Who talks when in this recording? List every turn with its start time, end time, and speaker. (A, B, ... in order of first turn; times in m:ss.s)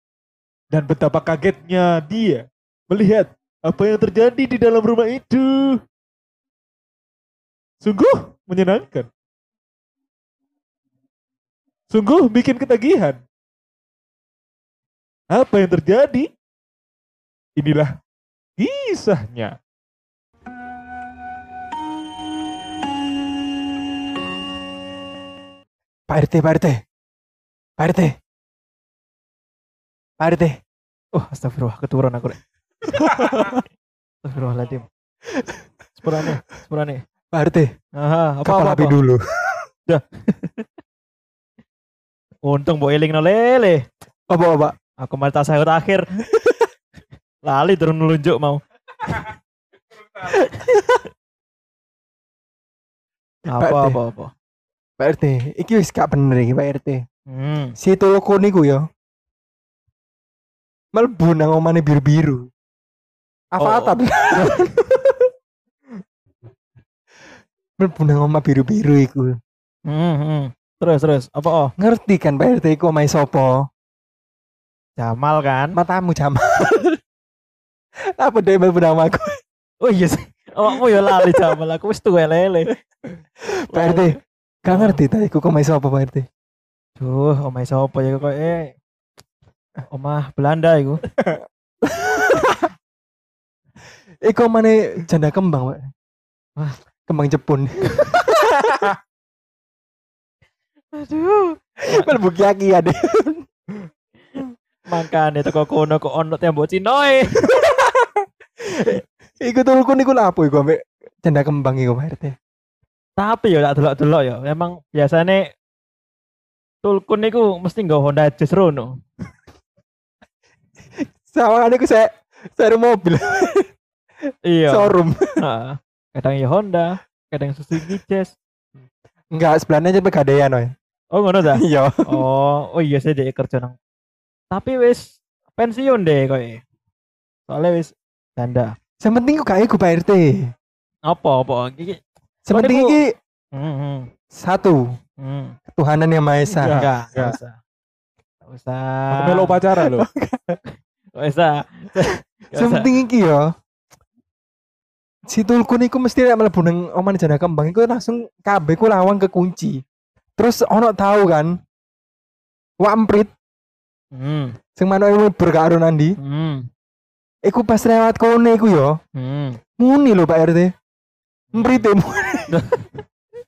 0:00.7-0:05.8 A
0:07.8-0:09.1 A
0:11.9-0:13.2 A
0:15.3-0:16.3 A
0:17.6-0:17.9 A
0:18.6-0:19.6 A
0:26.1-0:26.8 B
0:27.8-0:28.1 B
0:30.2-0:30.6 B
0:31.1-0:32.4 C
0:32.9-0:33.6 B
0:33.0-0:33.6 C
0:34.2-0:34.8 C
0:35.3-0:35.6 B
0:36.0-0:37.0 C
0:37.3-0:37.7 B
0:38.0-0:38.9 C
0:38.4-0:39.6 B
0:39.9-0:40.6 C
0:42.4-0:43.8 C
0:44.3-0:44.7 B
0:45.0-0:46.0 C
0:46.3-0:46.6 B
0:47.4-0:49.3 C
0:50.2-0:51.0 B
0:53.5-0:54.3 C
0:53.5-0:54.0 B
0:55.0-0:57.0 B
0:57.3-0:57.7 C
0:57.8-0:58.8 B
1:00.9-1:02.5 B
1:03.5-1:05.3 B
1:03.6-1:04.5 C
1:07.8-1:09.4 B
1:09.8-1:11.7 C
1:11.8-1:13.7 B
1:15.0-1:15.8 C
1:15.7-1:17.0 B
1:18.1-1:19.4 B
1:19.8-1:22.7 C
1:23.5-1:26.2 B
1:23.7-1:24.1 C
1:24.7-1:25.0 C
1:27.0-1:28.7 C
1:29.9-1:31.0 C
1:31.8-1:32.7 B
1:34.2-1:35.9 B
1:37.1-1:38.9 B
1:37.9-1:38.3 C
1:40.9-1:42.2 C
1:41.8-1:43.4 B
1:44.9-1:47.5 C
1:47.5-1:52.3 B
1:53.2-1:55.4 C
1:56.8-1:58.9 C
2:01.0-2:03.7 B
2:04.4-2:08.3 C
2:04.7-2:05.4 B
2:09.3-2:10.7 B
2:11.1-2:13.8 C
2:11.5-2:12.2 B
2:14.5-2:16.6 C
2:17.5-2:18.7 C
2:19.0-2:20.5 B
2:21.1-2:22.0 C
2:22.4-2:23.0 B
2:22.5-2:23.0 C
2:23.5-2:24.1 C
2:24.3-2:24.8 B
2:25.2-2:25.6 C
2:25.7-2:26.8 B
2:26.6-2:27.4 A
2:26.6-2:27.6 C
2:28.4-2:29.6 C
2:29.1-2:30.1 A
2:29.8-2:30.6 B
2:31.2-2:32.9 C
2:32.5-2:33.5 B
2:35.3-2:39.8 B
2:40.4-2:41.6 B
2:42.8-2:43.3 B
2:44.1-2:44.5 C
2:44.8-2:46.2 B
2:46.2-2:46.7 C
2:47.4-2:49.0 B
2:49.2-2:49.6 C
2:49.8-2:50.7 B
2:51.5-2:51.8 C
2:51.5-2:52.5 B
2:52.5-2:53.0 C